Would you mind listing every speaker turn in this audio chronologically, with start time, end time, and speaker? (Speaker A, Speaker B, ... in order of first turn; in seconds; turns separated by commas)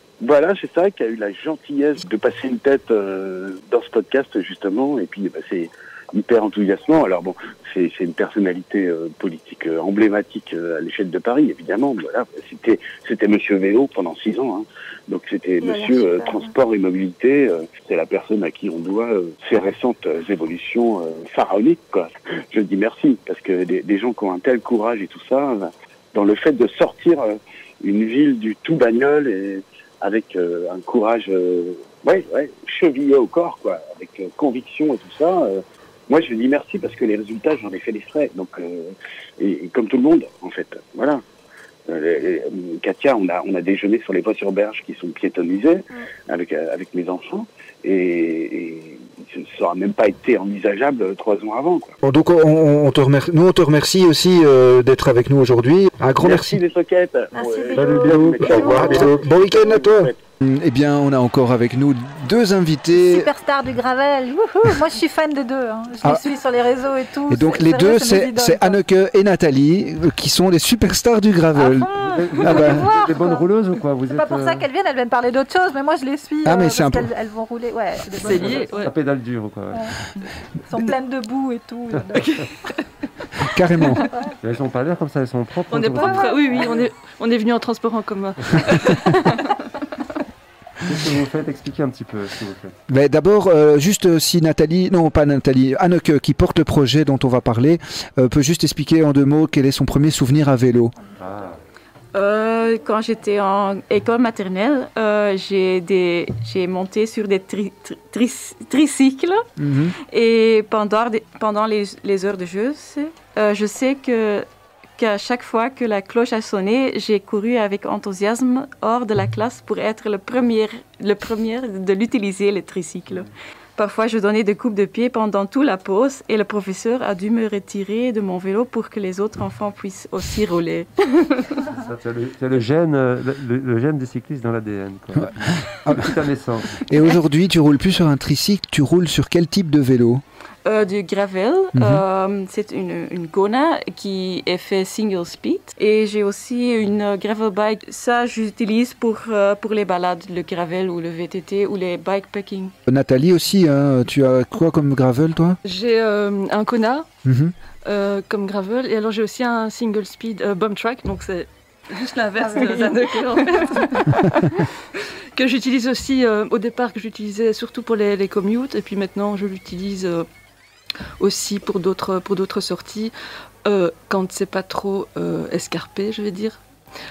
Speaker A: 0.2-41.2, Speaker B: 15.6-16.5, Speaker A: 41.9-52.0, Speaker C: 52.0-56.6, Speaker A: 56.2-60.2, Speaker B: 57.3-59.1, Speaker D: 57.7-59.2, Speaker C: 58.4-63.3, Speaker B: 62.9-68.8, Speaker C: 67.3-72.9, Speaker B: 71.5-73.5, Speaker D: 72.0-74.7, Speaker B: 74.1-78.9, Speaker C: 76.4-77.1, Speaker E: 78.2-78.9, Speaker D: 78.2-79.9, Speaker B: 80.7-82.5, Speaker C: 83.5-84.0, Speaker E: 83.8-84.0, Speaker D: 84.4-86.7, Speaker E: 85.7-89.2, Speaker B: 86.0-86.7, Speaker D: 90.8-92.8, Speaker C: 92.9-101.0, Speaker D: 101.2-101.6, Speaker F: 102.1-109.5, Speaker C: 109.6-110.0, Speaker F: 110.0-114.5, Speaker F: 115.0-131.6, Speaker D: 131.7-136.8, Speaker C: 135.1-136.2, Speaker C: 136.8-140.2, Speaker F: 140.7-152.7, Speaker C: 141.7-142.0, Speaker C: 152.9-155.6, Speaker E: 155.6-157.1, Speaker C: 157.2-157.5, Speaker E: 157.8-164.6, Speaker B: 162.4-163.0, Speaker F: 162.5-163.6, Speaker E: 165.3-170.3, Speaker E: 171.2-173.1, Speaker E: 173.6-176.6